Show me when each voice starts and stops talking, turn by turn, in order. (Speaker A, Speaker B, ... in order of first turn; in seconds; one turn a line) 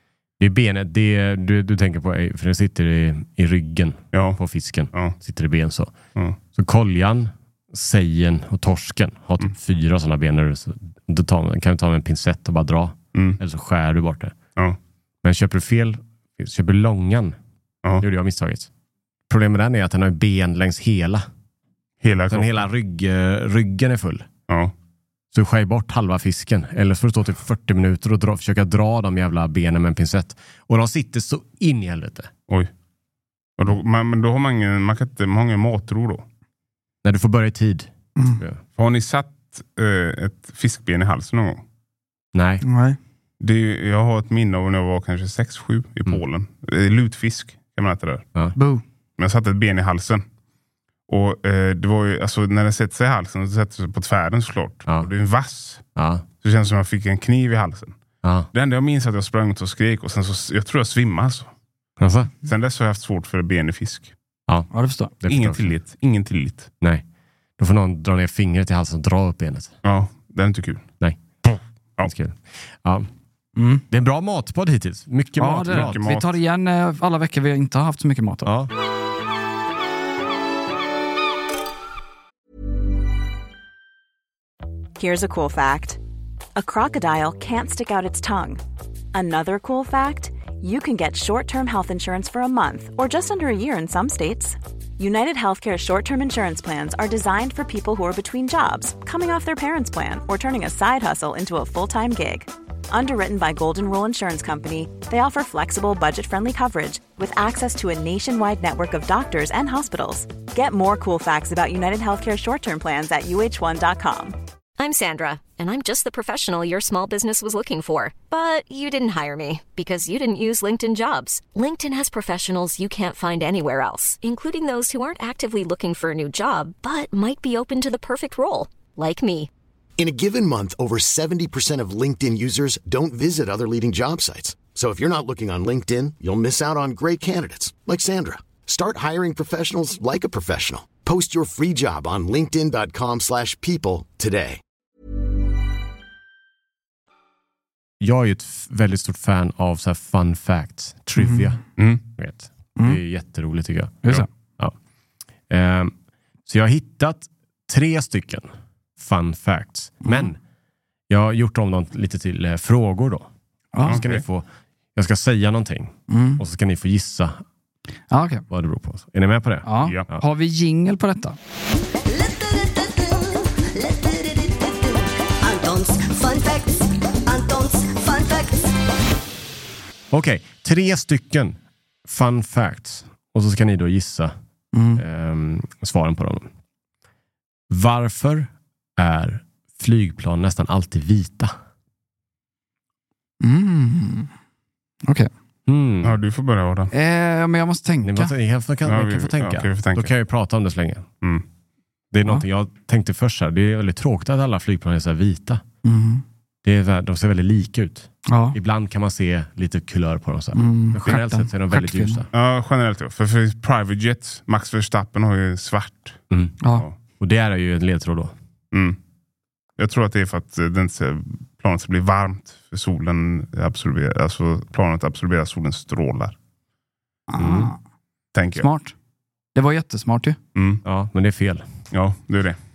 Speaker A: 0.4-5.9
Speaker B: 4.1-4.4
Speaker A: 6.5-14.4
Speaker A: 15.2-17.4
Speaker A: 18.0-18.7
Speaker A: 19.3-21.3
Speaker B: 22.0-22.7
Speaker A: 22.3-24.3
Speaker B: 24.5-24.7
Speaker A: 25.3-32.3
Speaker B: 33.6-36.2
Speaker A: 37.0-38.6
Speaker C: 38.2-38.4
Speaker B: 38.8-41.6
Speaker A: 42.3-42.6
Speaker C: 42.6-43.0
Speaker B: 43.4-48.2
Speaker C: 48.6-48.8
Speaker B: 49.2-50.2
Speaker B: 51.1-55.8
Speaker A: 56.0-56.2
Speaker B: 56.4-58.0
Speaker A: 58.2-58.5
Speaker B: 58.5-61.5
Speaker A: 62.0-62.3
Speaker B: 62.4-64.1
Speaker C: 64.7-65.1
Speaker A: 65.2-65.7
Speaker B: 65.3-66.7
Speaker A: 67.6-69.7
Speaker B: 69.8-70.8
Speaker B: 71.5-72.1
Speaker A: 72.0-73.1
Speaker C: 73.6-73.8
Speaker A: 73.9-76.0
Speaker C: 75.4-78.5
Speaker B: 75.7-76.4
Speaker A: 78.5-78.7
Speaker D: 85.0-86.0
Speaker D: 86.6-88.6
Speaker D: 89.1-114.4
Speaker E: 114.8-129.5
Speaker F: 130.0-144.6
Speaker A: 148.0-154.8
Speaker C: 151.2-151.5
Speaker A: 155.5-155.9
Speaker A: 156.5-160.4
Speaker C: 160.0-160.3
Speaker A: 161.1-163.3
Speaker C: 163.7-164.0
Speaker A: 163.8-167.4
Speaker B: 163.9-164.2
Speaker C: 166.1-166.4
Speaker C: 168.1-168.4
Speaker A: 168.5-170.2
Speaker C: 169.7-171.4
Speaker B: 169.8-170.1
Speaker G: 172.0-178.8
Speaker A: 180.1-184.3
Speaker C: 184.7-185.0
Speaker A: 185.0-186.5
Speaker A: 187.7-191.5
Speaker C: 193.4-194.3
Speaker C: 195.0-195.3
Speaker A: 195.7-196.2
Speaker B: 196.0-196.9
Speaker C: 196.9-198.3
Speaker A: 198.0-201.1
Speaker B: 198.8-200.1
Speaker A: 202.1-205.6
Speaker C: 205.8-206.2
Speaker A: 206.6-212.3
Speaker C: 208.3-208.6
Speaker C: 210.5-212.2
Speaker B: 212.3-216.2
Speaker A: 217.2-218.3
Speaker B: 218.7-219.0
Speaker B: 219.8-226.3
Speaker C: 227.3-227.8
Speaker A: 227.4-227.7
Speaker B: 228.3-228.7
Speaker C: 228.6-228.9
Speaker C: 229.6-230.4
Speaker B: 230.6-230.8
Speaker A: 230.8-231.7
Speaker B: 231.9-232.6